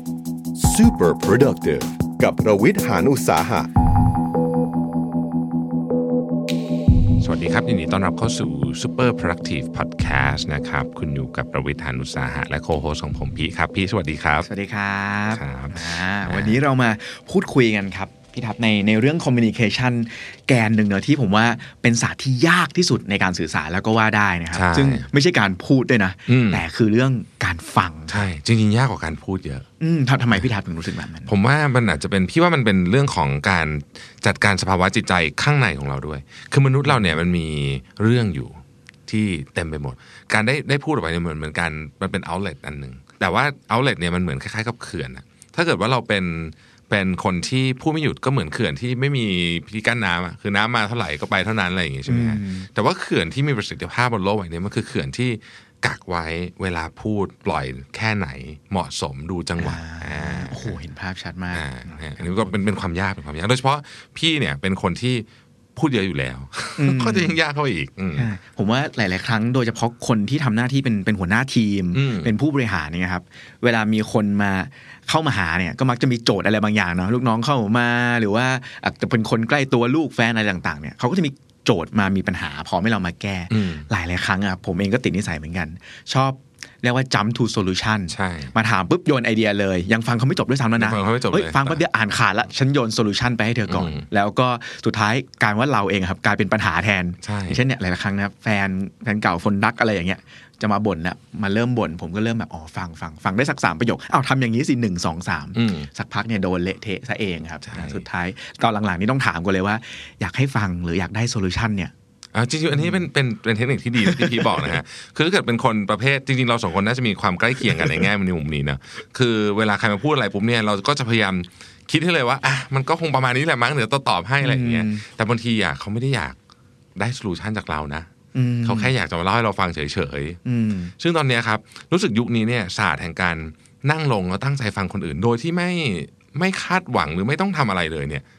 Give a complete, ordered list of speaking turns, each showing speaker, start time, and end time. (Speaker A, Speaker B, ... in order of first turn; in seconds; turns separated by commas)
Speaker A: 0.6-3.7, Speaker B: 7.2-14.5, Speaker C: 14.4-28.2, Speaker B: 15.3-16.6, Speaker B: 24.5-25.1, Speaker B: 26.3-26.6, Speaker B: 28.1-29.6, Speaker C: 29.8-31.3, Speaker B: 31.2-60.8, Speaker C: 52.0-52.7, Speaker C: 59.6-62.6, Speaker B: 61.5-68.3, Speaker C: 66.8-67.4, Speaker C: 68.1-111.9, Speaker B: 71.9-72.3, Speaker B: 83.5-83.9, Speaker B: 88.1-88.5, Speaker B: 90.8-91.8, Speaker B: 93.7-94.1, Speaker B: 97.2-97.6, Speaker B: 105.5-105.9, Speaker B: 107.7-108.0, Speaker B: 112.3-126.3, Speaker C: 112.7-113.0, Speaker C: 114.0-114.8, Speaker C: 124.4-125.0, Speaker B: 127.0-128.1, Speaker C: 128.3-128.9, Speaker B: 128.6-130.4, Speaker C: 130.4-130.9, Speaker B: 131.0-138.2